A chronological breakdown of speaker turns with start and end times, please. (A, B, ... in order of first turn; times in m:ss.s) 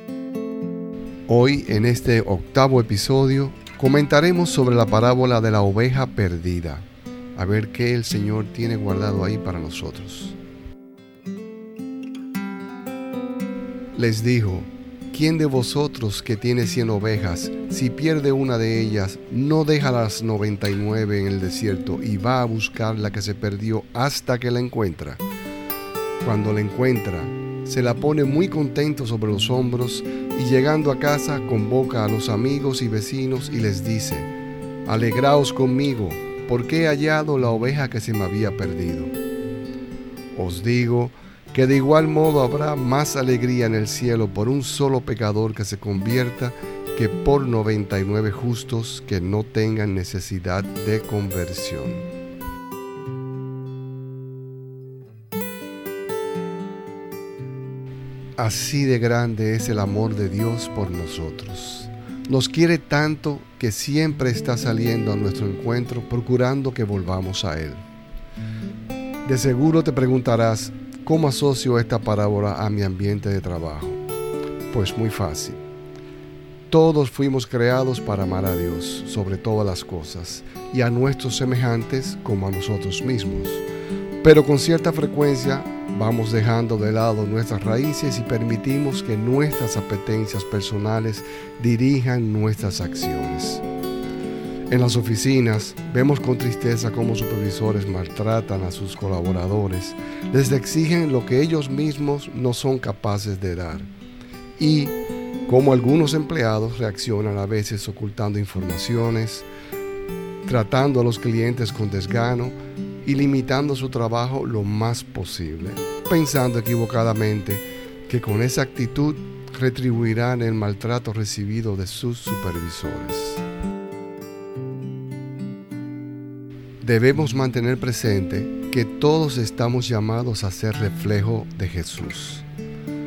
0:01.3-0:10.4 A
0:13.9-0:25.2 A
0:26.2-0:34.3 A
0:34.9-0:39.1 A
0:40.3-0:52.1 A
0:58.4-1:07.8 A
1:09.2-1:14.0 A
1:14.7-1:15.6 A
1:16.7-1:23.6 A
1:24.2-1:33.6 A
1:34.7-1:43.9 A
1:44.6-1:45.0 A
1:45.5-1:49.5 A
1:50.5-2:03.4 A
2:06.8-2:12.5 A